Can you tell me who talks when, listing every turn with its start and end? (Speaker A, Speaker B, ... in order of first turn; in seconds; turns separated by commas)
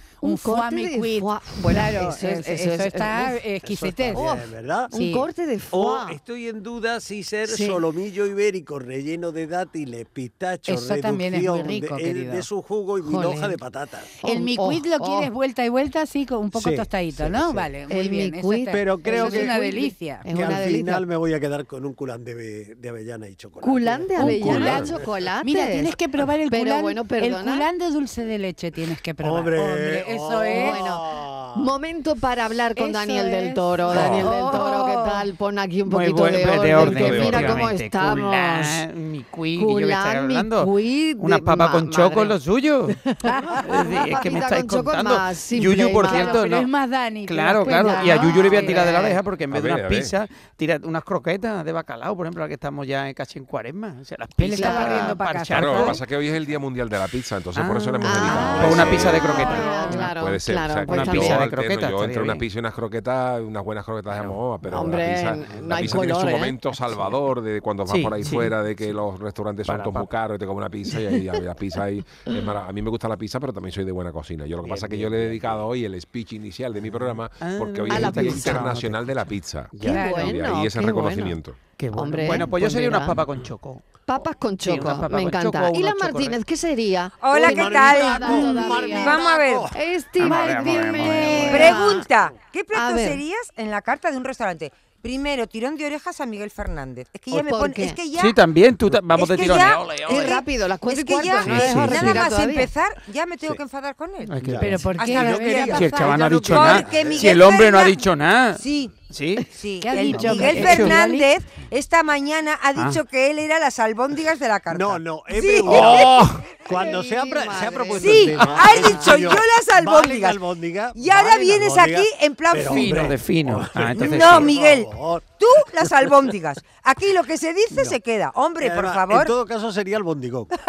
Speaker A: 0.2-4.3, Speaker B: 0.2-3.4, Speaker C: 3.6-4.9, Speaker B: 4.1-4.4, Speaker B: 4.9-6.2, Speaker A: 4.9-5.2, Speaker C: 5.7-14.1, Speaker B: 7.5-7.8, Speaker A: 10.7-12.5, Speaker B: 13.1-13.5, Speaker B: 14.2-15.3, Speaker A: 14.2-20.3, Speaker C: 16.5-17.7, Speaker B: 17.9-21.0, Speaker C: 18.7-19.6, Speaker C: 20.3-25.0, Speaker B: 23.6-26.0, Speaker A: 24.2-30.9, Speaker B: 26.5-27.7, Speaker C: 29.2-31.7, Speaker B: 30.5-31.0, Speaker B: 31.6-38.8, Speaker A: 32.8-35.3, Speaker D: 33.9-34.4, Speaker D: 35.9-43.0, Speaker E: 36.6-37.7, Speaker B: 39.5-42.4, Speaker A: 43.2-43.7, Speaker B: 43.5-46.4, Speaker D: 43.6-46.7, Speaker A: 46.0-49.0, Speaker D: 47.3-56.0, Speaker B: 47.8-49.2, Speaker E: 49.5-50.1, Speaker A: 54.4-56.0, Speaker B: 54.6-55.2, Speaker E: 55.5-81.6, Speaker D: 57.5-60.1, Speaker B: 58.0-61.4, Speaker A: 58.2-60.1, Speaker D: 60.9-62.4, Speaker B: 64.7-66.5, Speaker D: 67.9-68.5, Speaker D: 69.7-70.1, Speaker D: 74.7-75.6, Speaker D: 77.4-80.1, Speaker B: 77.9-78.6, Speaker A: 79.8-80.4, Speaker B: 79.9-81.4, Speaker D: 81.8-83.8, Speaker B: 82.0-83.2, Speaker B: 84.1-92.1, Speaker D: 84.6-86.4, Speaker F: 87.2-89.7, Speaker C: 87.3-89.8, Speaker D: 90.2-91.9, Speaker C: 90.9-91.5, Speaker F: 91.5-98.4, Speaker B: 92.7-93.2, Speaker B: 97.3-98.0, Speaker D: 98.2-100.3, Speaker F: 99.1-104.4, Speaker B: 99.5-102.7, Speaker D: 101.4-102.3, Speaker D: 104.3-111.0, Speaker C: 104.4-107.3, Speaker A: 104.6-106.2, Speaker F: 104.9-108.0, Speaker F: 108.6-108.9, Speaker F: 109.5-116.2, Speaker A: 109.8-111.3, Speaker C: 114.7-125.3, Speaker D: 116.0-116.2, Speaker B: 116.7-119.0, Speaker F: 118.0-120.4, Speaker F: 120.9-123.1, Speaker D: 122.5-124.5, Speaker F: 124.0-129.3, Speaker C: 127.7-128.0, Speaker C: 128.6-130.5